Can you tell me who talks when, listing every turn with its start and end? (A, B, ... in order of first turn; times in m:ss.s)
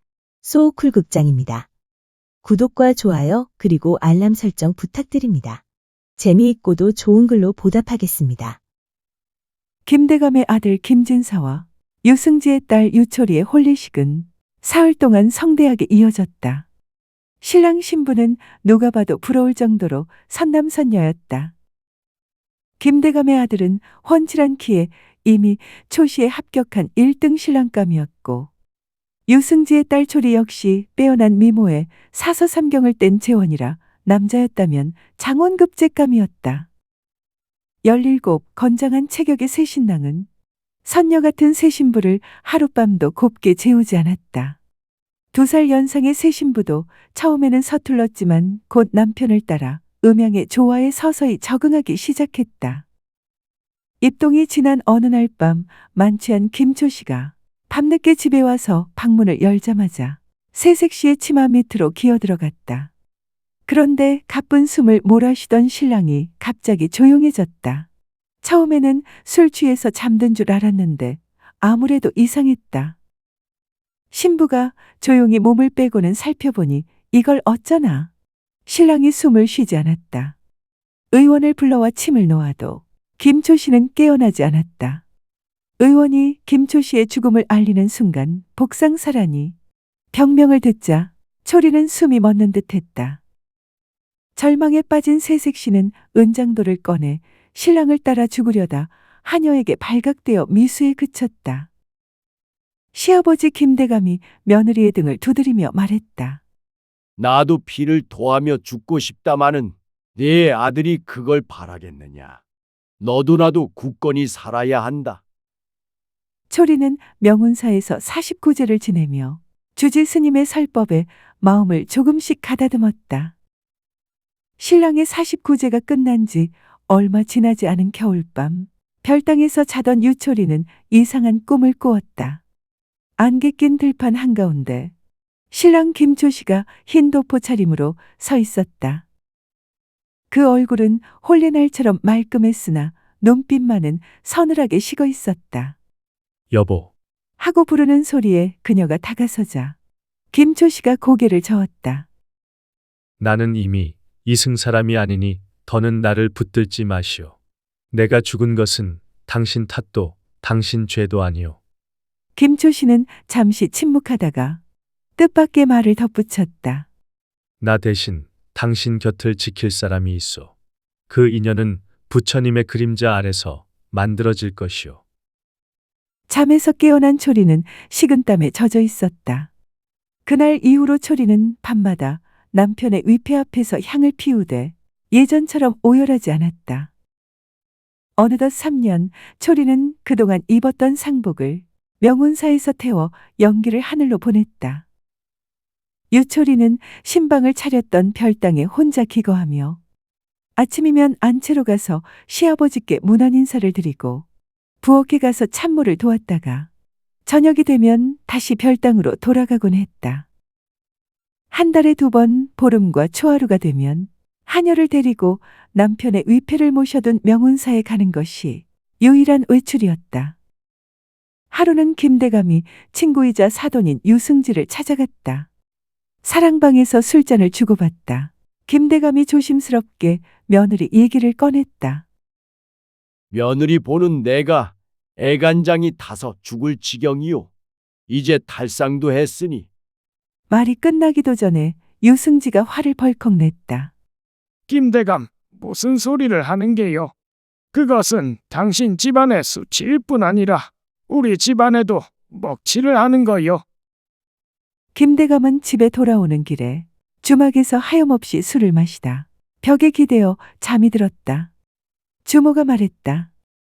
0:00.4-0:01.7 A
0:02.4-0:05.6 A
0:06.2-0:08.6 A
0:09.8-0:16.6 B
0:17.4-0:21.5 B
0:22.8-0:28.5 B
0:29.3-0:36.7 B
0:37.8-0:40.3 B
0:40.8-0:44.6 B
0:45.3-0:52.8 B
0:54.0-1:02.9 B
1:03.7-1:07.9 B
1:08.4-1:13.0 B
1:14.1-1:18.1 B
1:18.7-1:20.4 B
1:21.1-1:25.0 B
1:25.8-1:29.5 B
1:30.1-1:33.2 B
1:34.4-1:41.7 B
1:42.9-1:46.4 B
1:47.2-1:52.4 C
1:53.0-1:55.2 C
1:56.5-2:03.3 B
2:04.6-2:12.4 B
2:13.2-2:14.9 B
2:15.5-2:19.0 B
2:20.3-2:25.8 B
2:26.5-2:26.9 D
2:27.4-2:29.8 B
2:30.3-2:32.1 B
2:33.2-2:37.3 D
2:37.9-2:41.6 D
2:42.4-2:44.6 B
2:45.2-2:46.8 B
2:47.6-2:50.5 D
2:51.1-2:55.0 D
2:56.3-2:59.5 B
3:00.2-3:06.9 B
3:08.2-3:14.8 B
3:16.1-3:19.8 B
3:20.6-3:24.2 B
3:24.8-3:26.7 B
3:27.2-3:30.2 B
3:31.5-3:40.4 B
3:41.5-3:45.5 B
3:46.2-3:52.0 B
3:53.3-3:57.5 C
3:58.1-3:59.7 C
4:00.5-4:03.9 B
4:04.7-4:07.1 E
4:07.7-4:13.6 E
4:14.9-4:21.5 B
4:22.2-4:23.3 B